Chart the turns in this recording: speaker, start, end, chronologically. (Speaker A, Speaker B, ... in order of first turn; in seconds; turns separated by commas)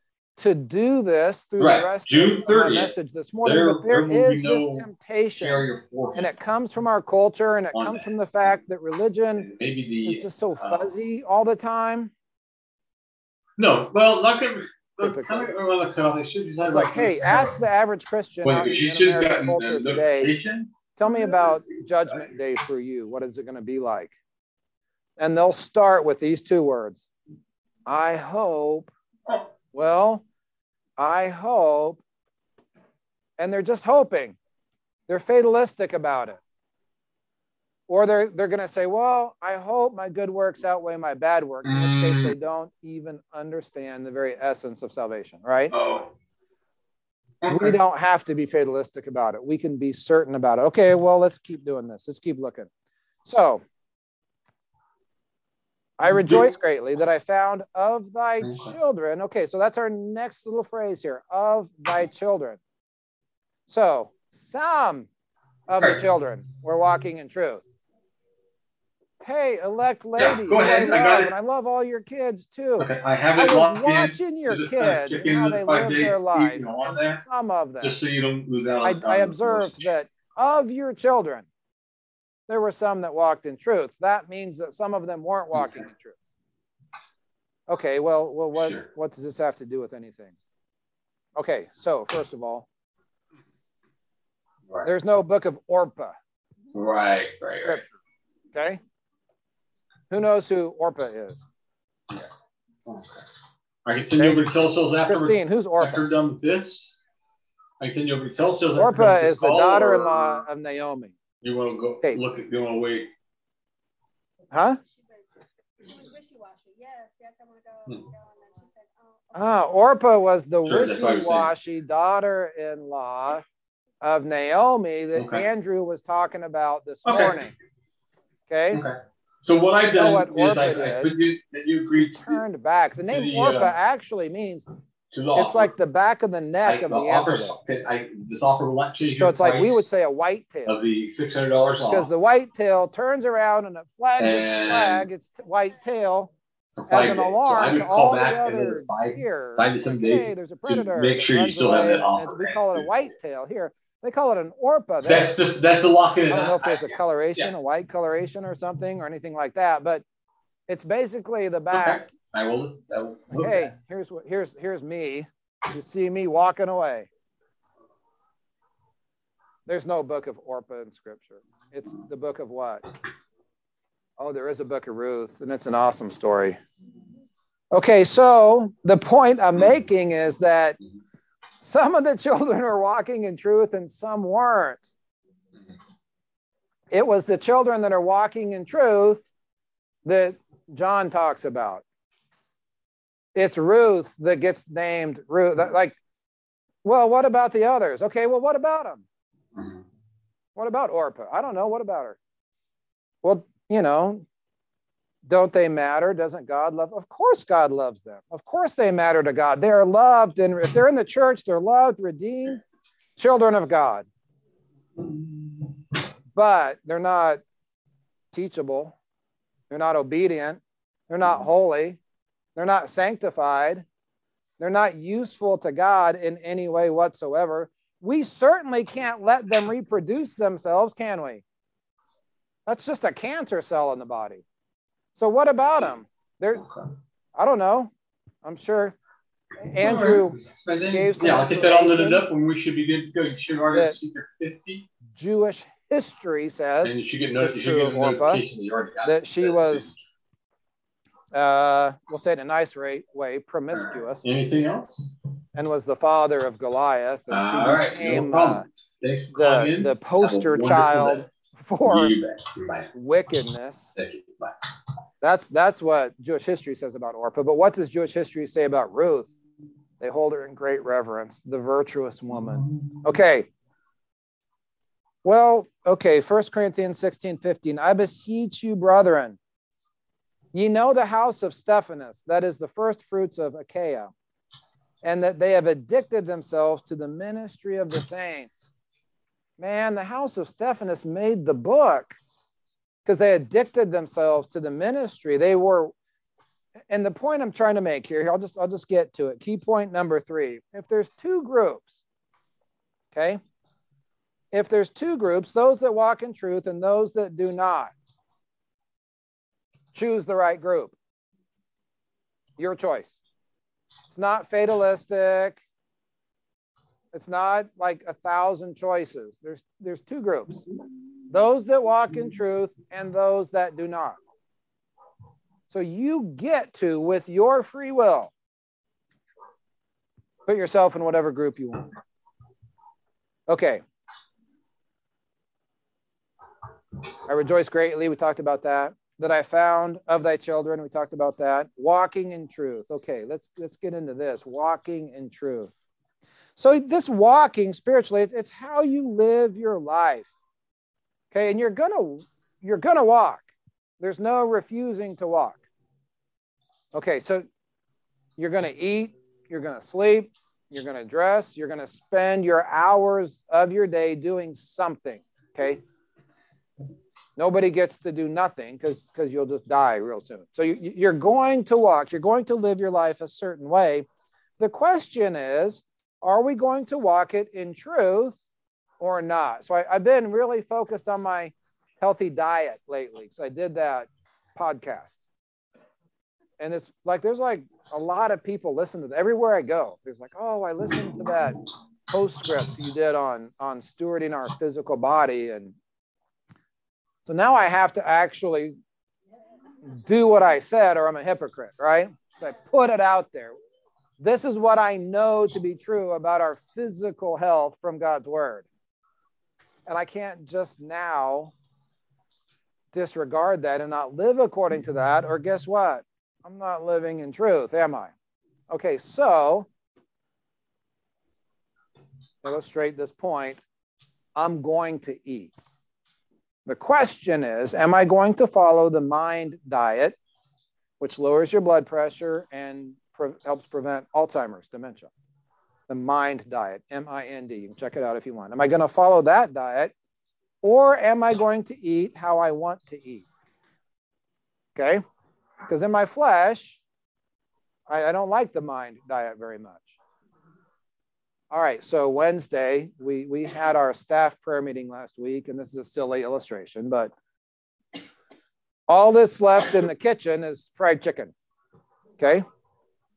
Speaker A: 0.4-9.5, Speaker B: 1.6-6.3, Speaker B: 7.7-8.1, Speaker B: 9.4-10.9, Speaker A: 10.0-12.1, Speaker B: 13.6-17.6, Speaker A: 15.0-15.5, Speaker A: 16.6-20.3, Speaker B: 18.4-22.3, Speaker A: 21.0-24.1, Speaker A: 25.2-27.0, Speaker A: 27.9-28.9, Speaker A: 29.7-30.2, Speaker A: 31.0-32.0, Speaker A: 33.4-34.4, Speaker A: 35.1-36.4, Speaker A: 37.9-45.8, Speaker B: 41.6-42.3, Speaker B: 45.7-46.1, Speaker B: 47.4-47.8, Speaker A: 47.5-52.7, Speaker A: 53.2-53.6, Speaker A: 56.0-62.6, Speaker B: 56.1-56.5, Speaker B: 58.4-58.7, Speaker A: 63.7-65.1, Speaker A: 65.7-67.6, Speaker B: 65.7-66.0, Speaker A: 69.2-78.0, Speaker B: 70.2-71.3, Speaker B: 72.8-77.2, Speaker B: 77.8-79.9, Speaker A: 78.8-81.5, Speaker A: 82.5-86.2, Speaker B: 85.5-85.8, Speaker A: 87.7-90.3, Speaker B: 88.5-88.8, Speaker A: 91.3-92.7, Speaker A: 94.8-96.2, Speaker B: 96.7-97.8, Speaker A: 97.6-97.9, Speaker A: 98.5-98.8, Speaker A: 100.1-101.4, Speaker B: 102.8-103.2, Speaker B: 103.8-107.0, Speaker A: 105.0-106.1, Speaker B: 107.8-110.4, Speaker A: 108.8-111.1, Speaker B: 111.4-113.1, Speaker A: 114.5-114.8, Speaker C: 114.9-115.2, Speaker C: 115.8-119.5, Speaker A: 119.3-123.4, Speaker B: 120.6-121.5, Speaker A: 124.0-127.5, Speaker B: 125.1-125.4, Speaker B: 127.0-127.4, Speaker A: 128.5-128.8, Speaker B: 128.7-132.4, Speaker A: 129.9-131.1, Speaker A: 131.9-134.7, Speaker B: 133.0-133.7, Speaker B: 135.1-135.7, Speaker A: 135.3-137.6, Speaker B: 136.6-139.8, Speaker A: 139.2-140.8, Speaker B: 140.7-142.1, Speaker A: 141.9-146.3, Speaker B: 144.2-145.1, Speaker B: 146.8-153.0, Speaker A: 146.9-155.4, Speaker B: 155.0-157.5, Speaker A: 156.3-160.0, Speaker A: 160.7-162.1, Speaker B: 161.7-163.7, Speaker A: 163.3-167.1, Speaker A: 169.7-172.9, Speaker A: 174.2-176.6, Speaker A: 177.7-180.8, Speaker A: 181.6-184.8, Speaker A: 186.9-189.2, Speaker A: 190.0-191.8, Speaker A: 193.3-196.0, Speaker A: 196.8-199.0, Speaker B: 199.6-199.8, Speaker A: 200.6-202.2, Speaker A: 203.2-204.2, Speaker A: 205.2-212.6, Speaker A: 213.2-214.1, Speaker A: 216.3-217.4, Speaker A: 218.3-218.9, Speaker A: 219.7-222.0, Speaker A: 222.6-223.8, Speaker A: 224.6-231.4, Speaker A: 232.7-234.4, Speaker A: 235.2-236.7, Speaker A: 237.3-237.9, Speaker A: 238.4-239.0, Speaker A: 239.6-242.3, Speaker B: 239.8-244.8, Speaker A: 245.1-248.4, Speaker B: 246.8-249.9, Speaker A: 249.0-249.9, Speaker A: 251.3-254.3, Speaker B: 253.7-255.1, Speaker A: 255.5-258.6, Speaker B: 257.3-261.3, Speaker A: 259.3-262.1, Speaker B: 261.8-262.9, Speaker A: 262.9-263.9, Speaker B: 263.9-264.7, Speaker A: 265.2-269.3, Speaker A: 270.0-273.5, Speaker A: 275.2-279.4, Speaker A: 280.5-284.1, Speaker A: 285.0-288.7, Speaker A: 289.6-292.2, Speaker A: 293.0-295.9, Speaker A: 296.9-301.9, Speaker A: 303.1-303.4, Speaker A: 304.5-307.9, Speaker A: 309.9-310.9, Speaker A: 312.6-313.1, Speaker A: 314.1-315.6, Speaker A: 317.1-320.6, Speaker A: 321.3-324.2, Speaker A: 325.7-328.3, Speaker A: 330.4-331.9, Speaker A: 333.5-333.8, Speaker A: 337.2-345.7, Speaker A: 346.6-350.3, Speaker A: 351.3-355.6, Speaker A: 356.9-357.4, Speaker A: 358.4-365.8, Speaker A: 367.4-374.1, Speaker A: 374.6-378.4, Speaker A: 379.0-385.1, Speaker A: 386.6-395.8, Speaker A: 397.2-398.8, Speaker A: 399.8-403.5, Speaker A: 404.2-408.6, Speaker A: 409.9-411.5, Speaker A: 412.9-418.1, Speaker A: 418.7-419.7, Speaker A: 422.4-423.6, Speaker A: 424.4-425.6, Speaker A: 426.6-430.1, Speaker A: 431.0-435.1, Speaker A: 435.9-439.9, Speaker A: 440.6-443.3, Speaker A: 444.8-445.0, Speaker A: 445.7-446.8, Speaker A: 447.9-449.9, Speaker A: 451.5-457.1, Speaker A: 458.9-461.3, Speaker A: 462.2-462.4